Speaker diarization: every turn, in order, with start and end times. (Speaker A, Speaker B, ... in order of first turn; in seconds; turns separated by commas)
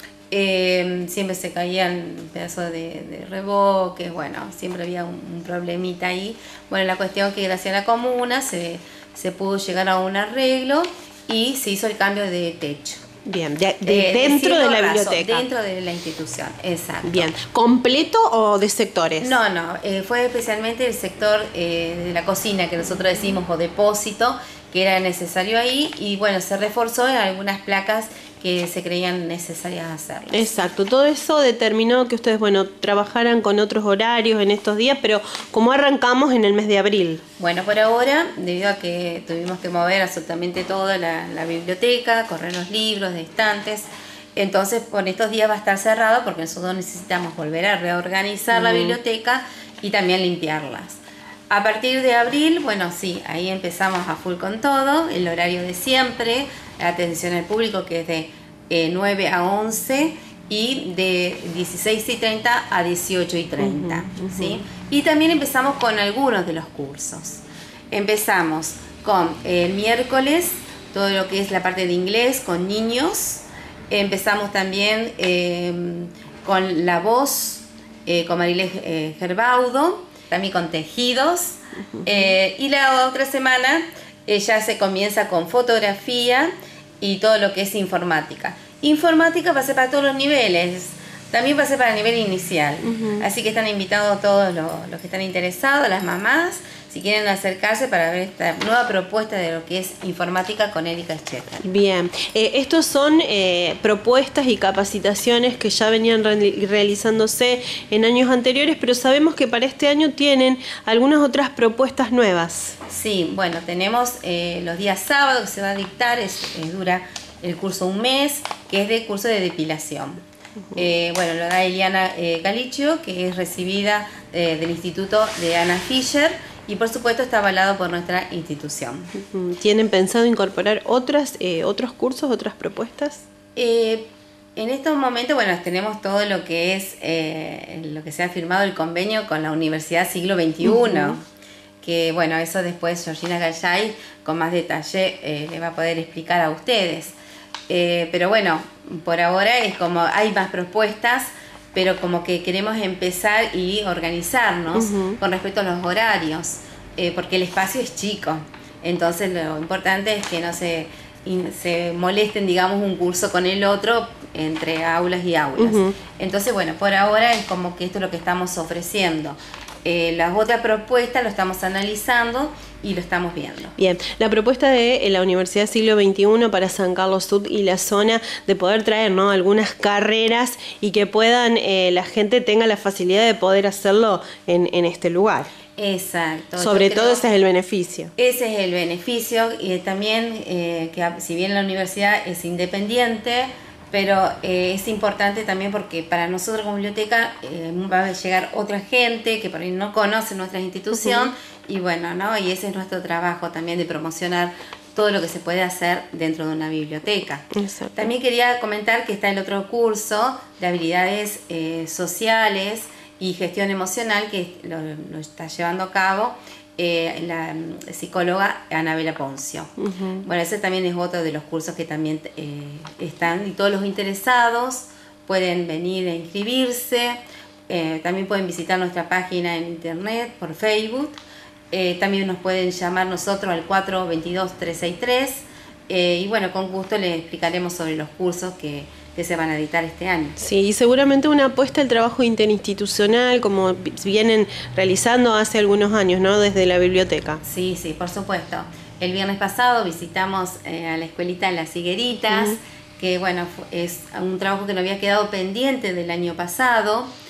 Speaker A: 0.3-13.1, Speaker B: 13.2-15.5, Speaker A: 13.8-17.3, Speaker B: 17.0-19.4, Speaker A: 19.2-30.5, Speaker B: 30.3-37.2, Speaker A: 37.4-101.7, Speaker B: 48.5-49.0, Speaker B: 63.6-64.6, Speaker B: 82.0-82.2, Speaker B: 92.8-93.2, Speaker B: 101.6-112.8, Speaker A: 112.9-120.2, Speaker A: 120.8-129.1, Speaker B: 129.1-133.2, Speaker A: 133.6-141.2, Speaker B: 140.6-141.2, Speaker A: 141.8-147.2, Speaker A: 147.7-173.8, Speaker B: 154.7-155.2, Speaker B: 165.6-165.9, Speaker B: 173.8-185.5, Speaker A: 185.8-187.2, Speaker B: 186.6-188.1, Speaker A: 188.2-231.2, Speaker B: 200.9-201.3, Speaker B: 207.5-208.1, Speaker B: 219.8-220.2, Speaker A: 231.7-240.4, Speaker B: 240.4-247.4, Speaker A: 247.4-257.1, Speaker B: 252.3-252.6